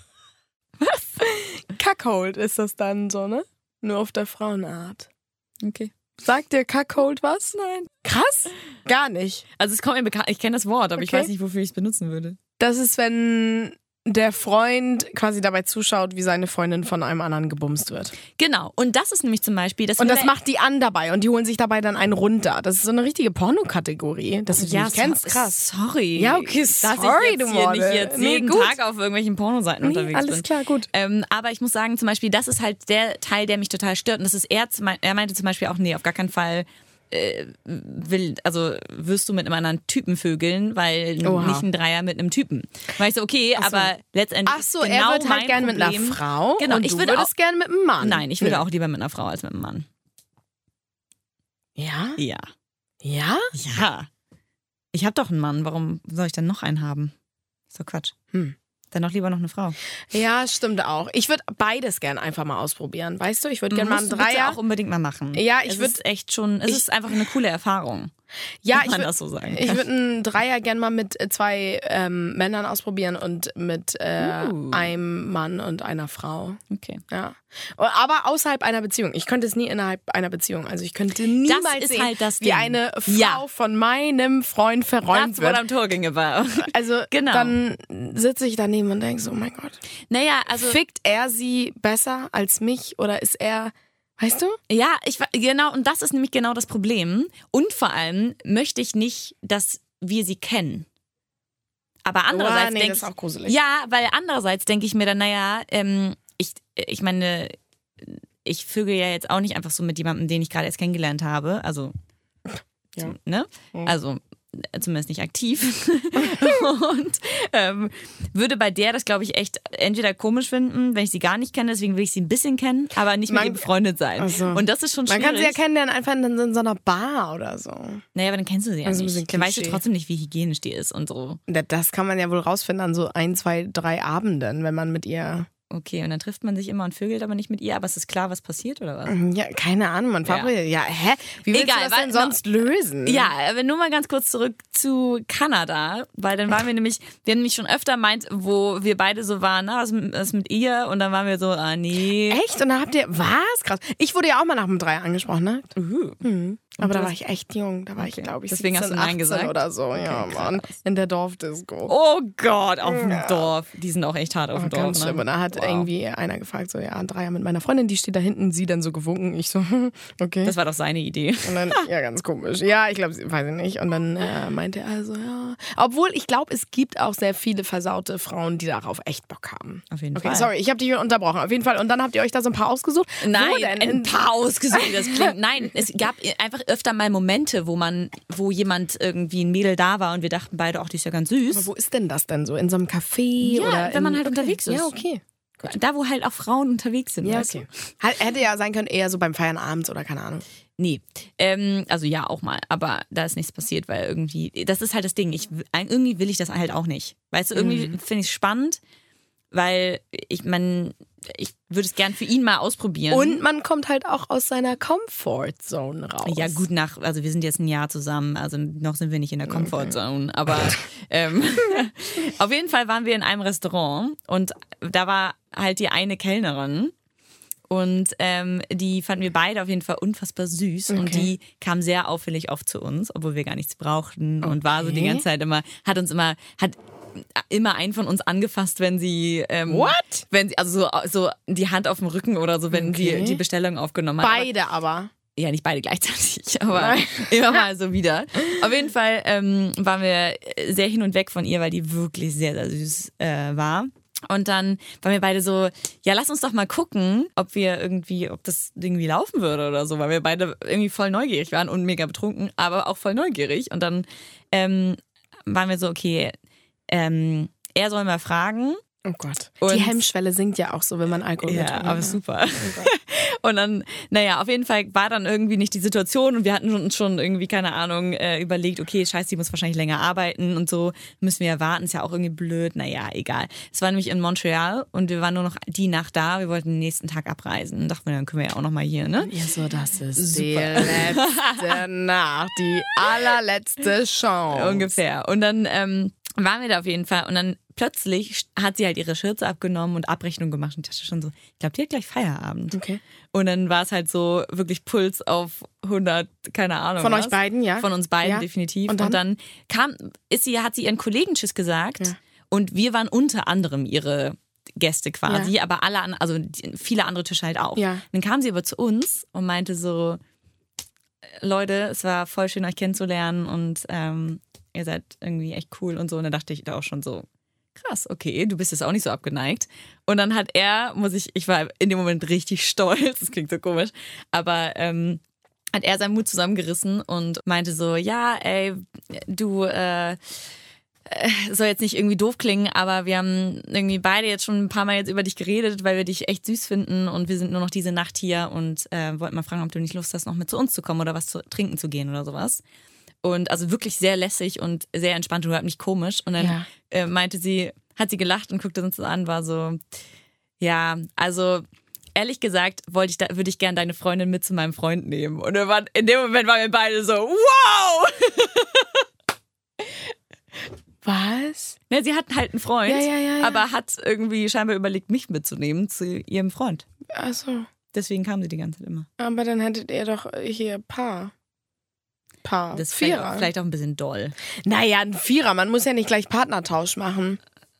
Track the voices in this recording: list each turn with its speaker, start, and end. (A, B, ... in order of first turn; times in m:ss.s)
0:00.8-0:01.1 A
0:01.2-0:05.1 B
0:05.6-0:05.9 A
0:06.2-0:09.4 B
0:09.6-0:12.4 A
0:11.0-0:11.3 B
0:12.6-0:18.1 B
0:18.4-0:20.3 A
0:20.0-0:25.6 B
0:24.5-0:47.3 A
0:26.2-0:28.8 B
0:29.8-0:30.9 B
0:41.2-0:41.6 B
0:43.6-0:43.9 B
0:44.4-0:48.6 B
0:48.0-0:49.9 A
0:51.8-0:52.2 B
0:52.2-0:52.4 A
0:53.0-0:53.5 B
0:53.5-0:54.1 A
0:54.9-0:57.1 A
0:57.7-0:58.1 A
0:58.9-0:59.8 A
1:00.1-1:04.6 B
1:03.7-1:08.1 A
1:05.3-1:06.0 B
1:08.6-1:25.6 B
1:08.7-1:09.8 A
1:14.2-1:14.9 A
1:16.7-1:17.0 A
1:21.4-1:23.4 A
1:25.1-1:27.6 A
1:26.6-1:29.8 B
1:30.1-1:30.8 A
1:30.6-1:34.6 B
1:34.7-1:40.9 A
1:42.0-1:51.9 A
1:42.3-1:43.6 B
1:53.0-2:05.6 A
2:03.3-2:03.6 B
2:04.2-2:08.0 B
2:08.1-2:11.4 A
2:08.8-2:09.8 B
2:11.5-2:15.5 B
2:15.7-2:19.1 A
2:19.1-2:23.3 B
2:20.2-2:20.5 A
2:21.5-2:22.3 A
2:23.0-2:32.4 A
2:32.3-2:41.9 B
2:35.8-2:36.2 A
2:36.8-2:37.1 A
2:38.0-2:40.8 A
2:41.9-2:45.9 A
2:42.8-2:43.5 B
2:44.5-2:50.5 B
2:50.4-2:51.9 A
2:51.4-3:04.1 B
2:59.9-3:00.5 A
3:03.2-3:11.7 A
3:04.7-3:05.3 B
3:11.5-3:15.8 B
3:13.4-3:15.0 A
3:15.6-3:17.6 A
3:17.2-3:20.4 B
3:20.8-3:28.8 A
3:27.5-3:28.0 B
3:29.5-3:33.4 A
3:33.1-3:36.6 B
3:36.2-3:46.9 A
3:39.5-3:40.0 B
3:47.7-4:04.5 A
3:50.9-3:51.3 B
3:54.4-3:55.2 B
3:59.7-4:00.2 B
4:02.7-4:03.4 B
4:04.2-4:05.1 B
4:05.4-4:26.4 A
4:06.7-4:07.6 B
4:26.9-4:28.8 A
4:29.0-4:32.9 B
4:29.6-4:30.0 A
4:31.4-4:49.3 A
4:49.2-4:55.0 B
4:50.2-4:51.8 A
4:54.5-5:02.8 A
5:02.7-5:03.0 B
5:03.3-5:20.2 A
5:07.0-5:09.2 B
5:15.3-5:15.5 B
5:17.8-5:18.0 B
5:21.4-5:35.2 A
5:35.7-5:40.2 A
5:41.1-5:52.6 A
5:53.2-5:59.8 A
5:56.4-5:56.6 B
6:00.6-6:01.6 A
6:02.2-6:09.0 A
6:11.0-6:11.8 B
6:11.9-6:16.8 A
6:12.8-6:13.6 B
6:17.1-6:17.7 B
6:17.9-6:19.1 A
6:19.2-6:21.3 B
6:22.4-6:23.5 B
6:22.7-6:24.4 A
6:24.6-6:27.4 B